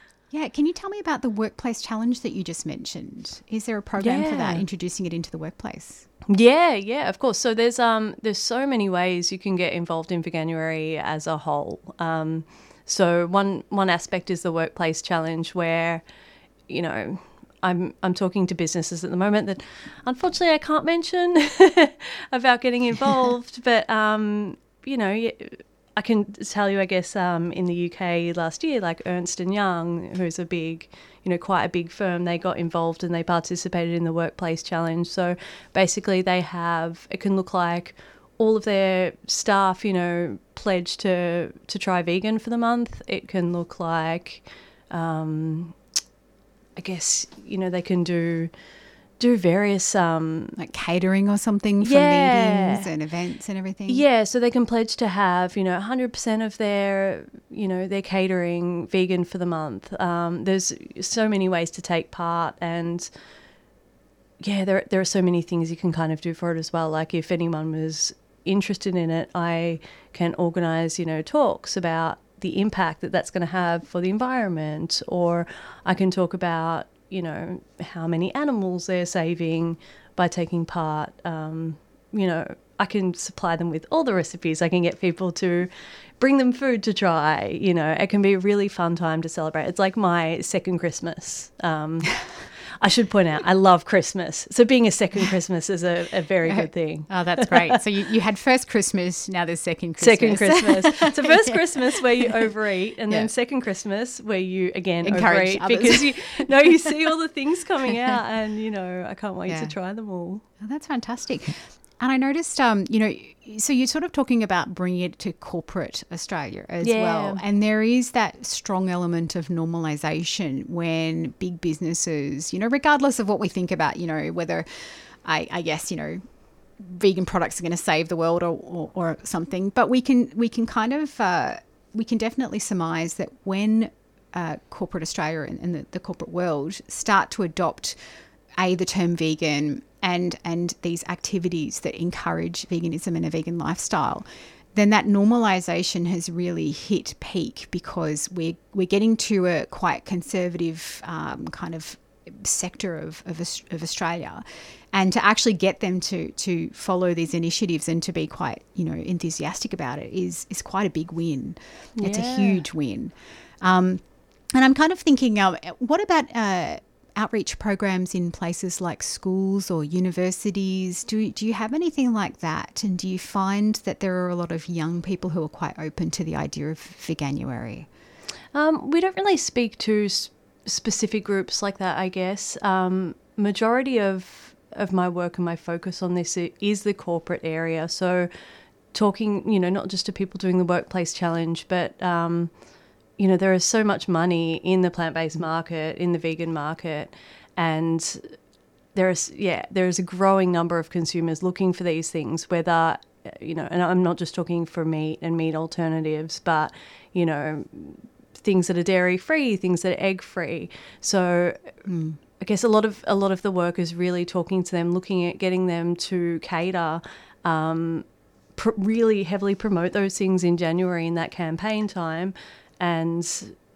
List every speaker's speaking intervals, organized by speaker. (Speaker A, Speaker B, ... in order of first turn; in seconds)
Speaker A: 0.3-6.0, 50.6-54.0, 96.4-102.4, 105.0-106.8, 109.5-109.7, 110.6-126.2, 126.8-138.0, 138.6-177.9, 211.8-212.2
Speaker B: 4.0-4.6, 6.3-16.0, 16.7-45.8, 46.8-48.5, 49.2-50.6, 51.8-52.9, 53.9-63.1, 64.4-97.8, 100.0-110.4, 116.8-117.4, 162.0-162.6, 178.5-188.3, 188.9-192.5, 193.2-198.3, 198.9-211.7, 212.4-223.6